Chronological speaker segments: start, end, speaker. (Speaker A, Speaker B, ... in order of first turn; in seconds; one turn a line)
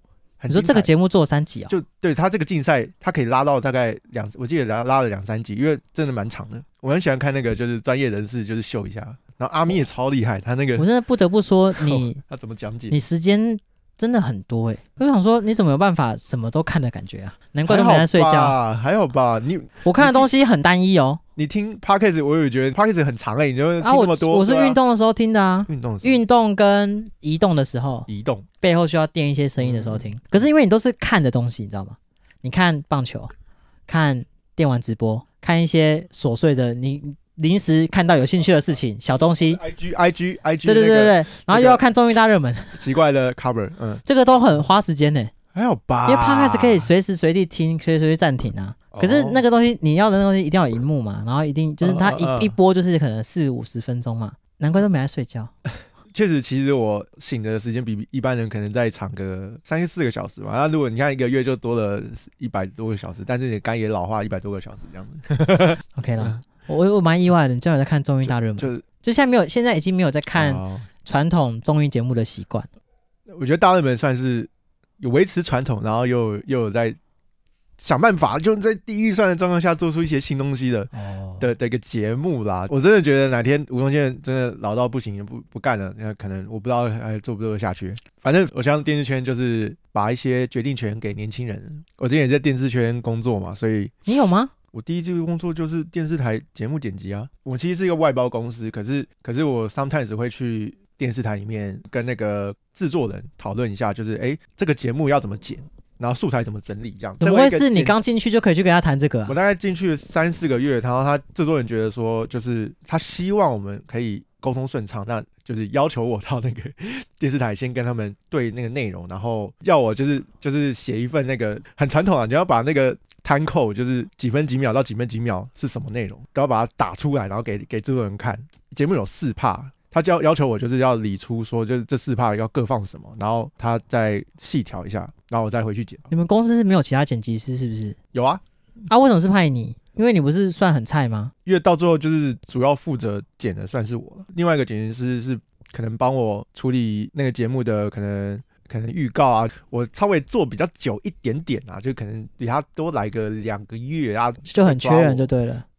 Speaker A: 0.4-0.9
Speaker B: 0.5-1.7
Speaker A: 1.7-10.9
Speaker B: 10.8-12.2
Speaker A: 11.7-13.0
Speaker B: 12.9-18.6
Speaker A: 17.6-20.3
Speaker B: 19.8-21.2
Speaker A: 21.4-24.8
Speaker B: 23.8-28.1
Speaker A: 25.7-26.2
Speaker A: 28.1-28.4
Speaker B: 28.6-33.3
Speaker A: 29.6-30.1
Speaker B: 33.9-39.6
Speaker A: 39.4-41.8
Speaker B: 40.6-42.8
Speaker A: 42.7-44.0
Speaker B: 44.0-45.3
Speaker A: 45.5-46.9
Speaker B: 46.0-55.5
Speaker A: 48.9-49.4
Speaker A: 51.8-52.5
Speaker A: 56.1-66.4
Speaker B: 65.9-72.7
Speaker A: 68.2-68.8
Speaker A: 70.3-70.9
Speaker A: 73.3-77.0
Speaker A: 77.8-93.9
Speaker B: 80.9-81.5
Speaker B: 94.0-94.5
Speaker A: 94.7-108.0
Speaker B: 107.2-109.4
Speaker A: 109.3-136.1
Speaker B: 136.1-138.0
Speaker A: 138.1-138.4
Speaker B: 138.9-141.3
Speaker A: 141.4-155.3
Speaker B: 154.4-155.7